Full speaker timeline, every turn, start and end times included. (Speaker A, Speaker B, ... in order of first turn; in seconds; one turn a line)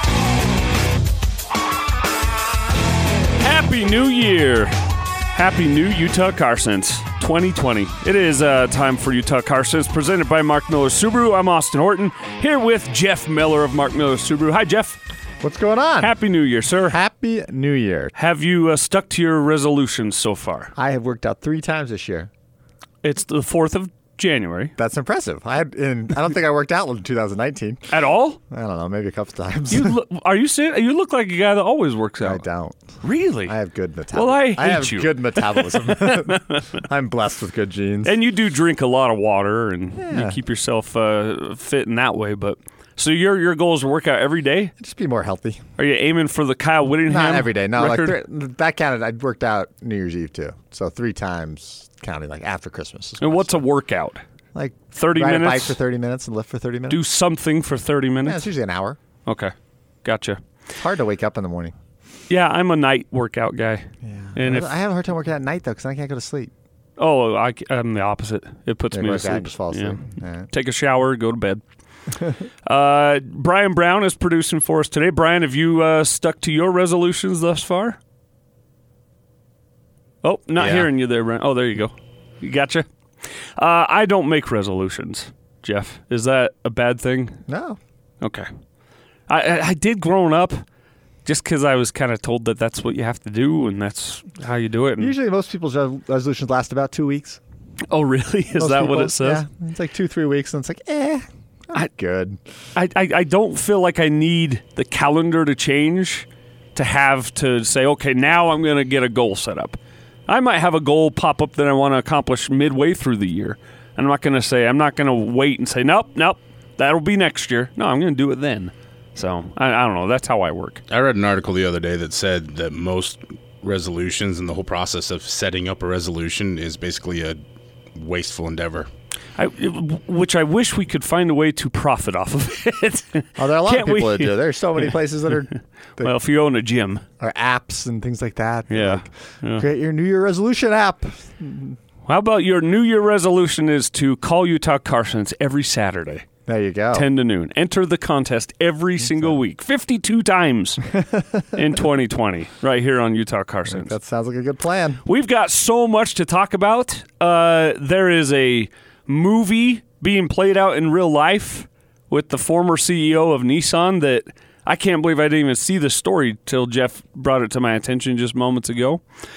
Speaker A: 3.4-4.8
Speaker A: 5.3-15.0
Speaker B: 15.4-16.1
Speaker A: 16.0-17.0
Speaker B: 16.9-18.1
Speaker A: 18.1-20.7
Speaker B: 20.8-22.3
Speaker A: 23.0-24.7
Speaker B: 24.8-27.9
Speaker A: 27.9-28.4
Speaker B: 28.5-29.9
Speaker A: 29.7-32.4
Speaker B: 32.2-32.8
Speaker A: 33.0-33.5
Speaker B: 33.4-38.2
Speaker A: 34.1-36.7
Speaker A: 38.0-44.7
Speaker B: 40.0-40.4
Speaker B: 44.8-45.6
Speaker A: 45.8-48.2
Speaker B: 47.1-53.5
Speaker A: 53.2-54.2
Speaker B: 54.5-57.0
Speaker A: 54.9-55.8
Speaker A: 56.9-58.5
Speaker B: 58.2-59.0
Speaker A: 59.2-60.4
Speaker B: 60.8-61.7
Speaker A: 62.3-64.7
Speaker B: 64.0-66.5
Speaker A: 67.0-71.6
Speaker B: 68.9-70.5
Speaker A: 72.6-78.0
Speaker A: 80.2-82.9
Speaker A: 83.5-87.4
Speaker B: 87.5-87.8
Speaker A: 88.2-88.5
Speaker A: 89.3-90.6
Speaker A: 91.2-95.1
Speaker B: 95.0-97.4
Speaker A: 97.9-99.4
Speaker B: 98.5-102.4
Speaker A: 102.7-120.8
Speaker C: 120.9-127.4
Speaker C: 128.0-128.9
Speaker A: 129.4-134.9
Speaker B: 133.4-136.1
Speaker A: 136.0-137.0
Speaker B: 137.2-141.8
Speaker A: 138.7-139.7
Speaker A: 142.1-146.3
Speaker B: 146.4-147.1
Speaker A: 146.9-150.9
Speaker A: 151.5-153.9
Speaker B: 153.7-155.0
Speaker A: 155.0-169.0